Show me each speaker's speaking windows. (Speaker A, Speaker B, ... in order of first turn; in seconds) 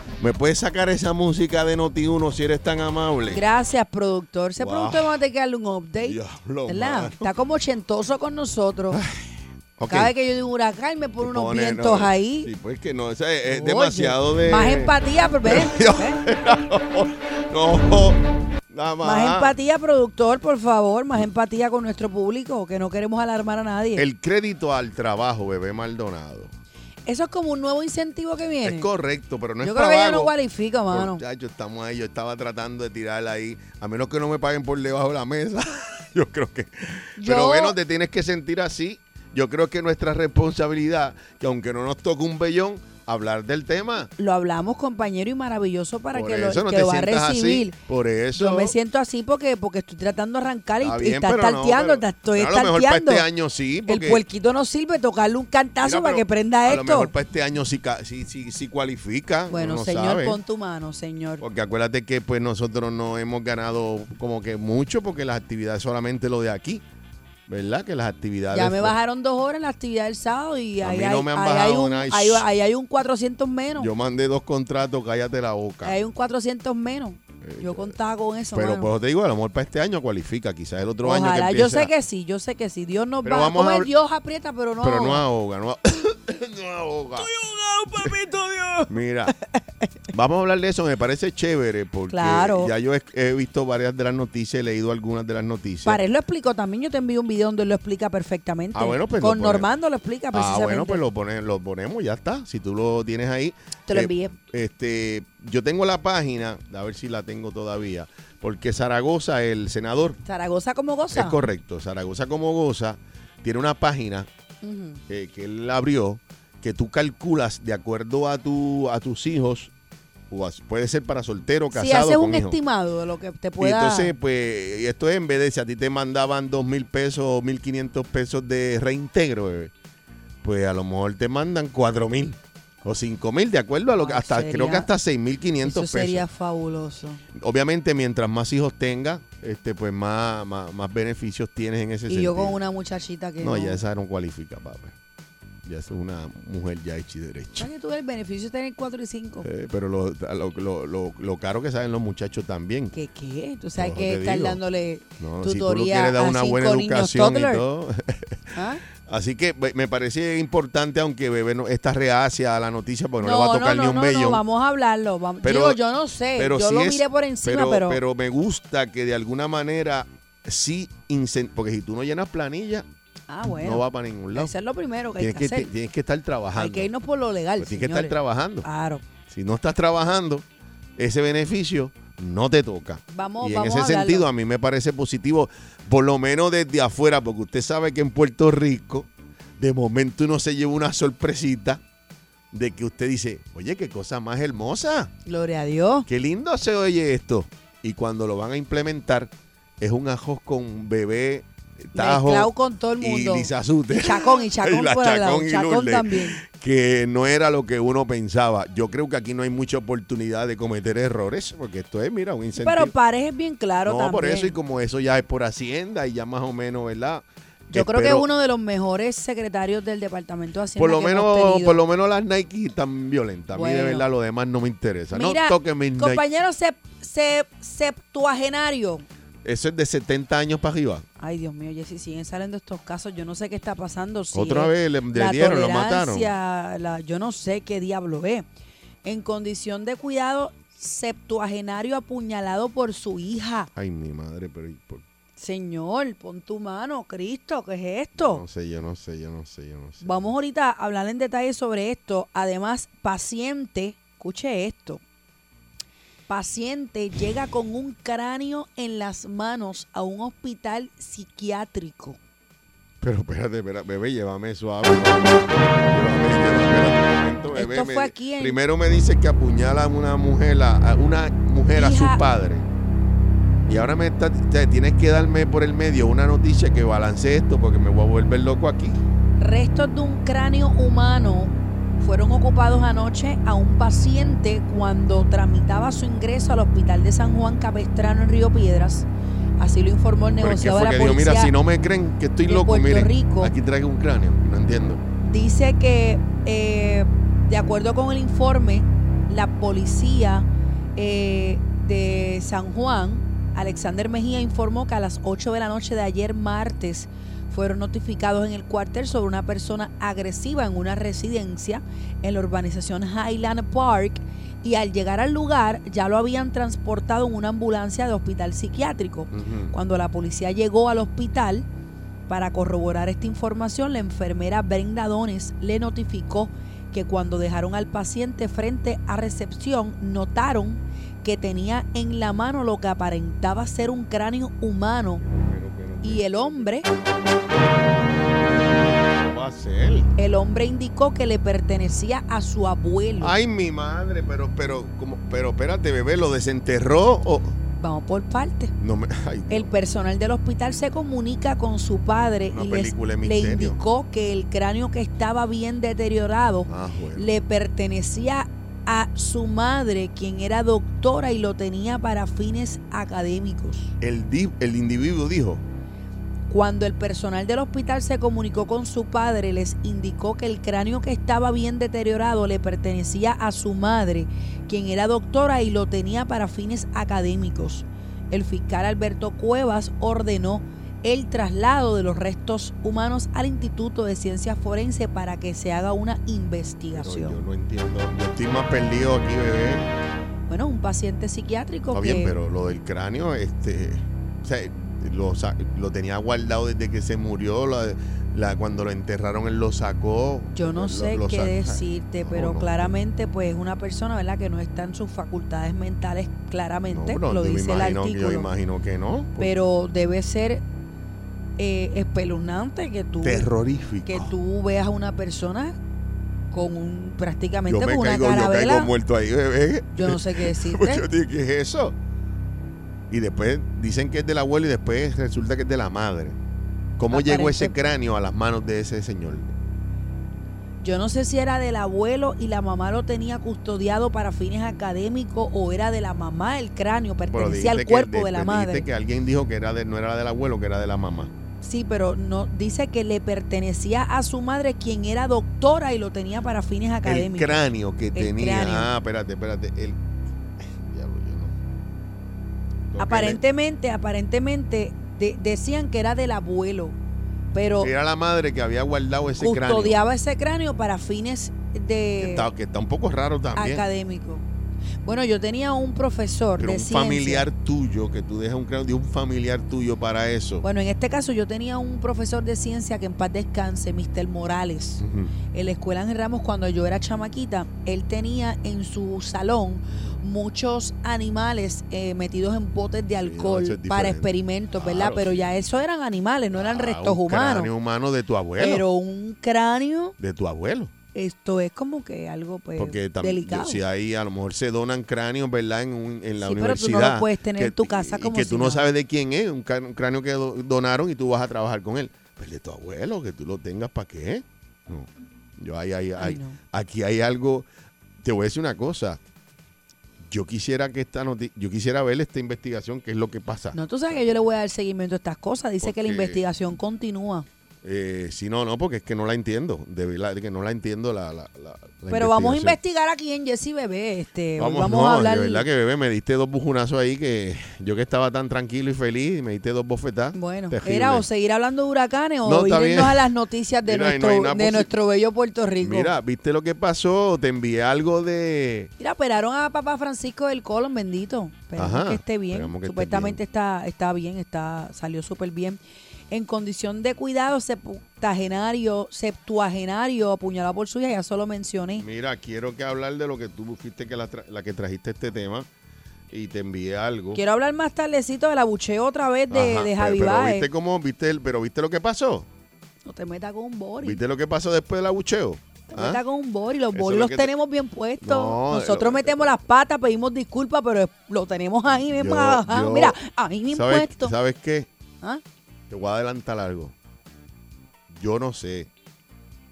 Speaker A: 0.2-3.4, 4.6-5.2, 6.0-7.3, 8.9-10.1, 11.2-14.9, 15.4-19.5, 23.9-26.5, 28.6-30.3, 30.9-44.1, 46.1-48.7, 50.8-54.2, 55.8-60.4, 61.4-66.8, 67.5-68.9, 70.8-72.4, 73.8-76.0, 77.4-78.0, 78.5-81.9, 83.2-83.9, 84.8-87.3, 88.9-89.3, 90.1-96.0, 98.7-99.7, 100.3-110.2, 111.1-114.3, 115.1-119.7, 120.3-122.6, 123.6-129.7, 130.4-136.2, 137.3-142.6, 143.4-144.9, 145.7-147.7, 149.4-152.9, 153.8-154.6, 155.2-164.4, 165.4-165.8, 166.4-172.9, 173.6-174.5, 175.2-176.9, 177.6-178.7, 179.3-180.4, 181.0-191.8, 192.5-195.1, 196.1-212.9, 213.8-218.2, 220.8-226.2, 229.4-231.1, 234.3-236.3, 243.7-245.0, 248.2-250.2, 263.0-272.7, 273.6-279.0, 290.4-295.0, 319.3-319.7, 335.2-337.1, 339.1-340.1, 343.2-347.6, 348.8-349.7, 352.5-353.8, 356.7-357.3, 364.0-365.6, 386.9-389.9, 391.9-402.9, 406.9-409.5, 413.2-414.3, 417.7-421.9, 423.1-426.4, 427.0-429.5, 437.3-441.3, 447.0-450.0, 450.6-451.6, 452.9-453.4, 457.8-460.0, 462.2-463.8, 466.6-470.6, 475.0-475.3, 479.9-480.2, 483.2-485.5, 486.5-488.9, 490.2-490.9, 492.8-507.7, 508.2-509.2, 510.3-514.3, 515.8-516.4, 517.8-522.8, 524.6-531.2, 532.4-533.3, 533.9-534.9, 535.8-538.9, 541.8-543.4, 552.0-555.7, 556.3-557.4, 559.5-562.5, 564.0-566.2, 566.9-567.5, 568.2-569.5, 572.0-573.2, 573.7-574.9, 575.9-576.9, 578.1-578.9
Speaker B: 3.3-9.0, 9.9-12.5, 13.4-16.2, 19.0-24.0, 27.1-28.9, 29.6-31.2, 37.2-37.8, 44.2-47.8, 48.3-53.2, 53.9-57.1, 59.5-61.4, 68.5-73.9, 75.8-78.9, 81.0-85.2, 87.2-88.9, 89.5-89.8, 92.1-92.7, 95.8-101.0, 103.9-104.4, 110.2-111.4, 114.6-115.0, 121.7-124.1, 134.0-134.9, 135.6-137.2, 142.1-143.8, 147.6-149.5, 152.9-157.6, 158.5-158.8, 163.2-168.0, 173.3-173.8, 174.3-175.7, 176.6-179.0, 183.1-184.3, 195.2-196.1, 201.9-206.4, 212.6-214.5, 217.7-221.8, 223.5-224.1, 225.1-229.0, 231.2-238.4, 239.0-243.7, 245.4-248.4, 250.0-255.0, 256.3-262.2, 267.5-268.6, 271.7-272.2, 279.4-289.1, 289.6-291.5, 292.5-293.5, 295.2-300.4, 301.0-321.6, 322.3-335.2, 336.0-336.9, 340.2-343.4, 347.8-348.7, 349.5-363.9, 366.5-387.4, 390.5-392.4, 400.5-408.5, 409.4-410.6, 411.6-413.4, 414.1-415.8, 416.5-418.9, 419.9-421.0, 427.1-427.7, 430.8-438.9, 441.6-447.6, 448.1-448.9, 453.0-456.9, 457.5-457.9, 459.4-462.5, 463.6-464.4, 465.0-467.5, 470.6-487.7, 488.6-490.1, 491.1-493.8, 496.4-498.9, 506.2-506.6, 513.7-517.5, 522.1-525.6, 530.3-536.1, 539.0-545.8, 546.3-552.0, 557.3-560.7, 563.1-564.2, 565.9-574.3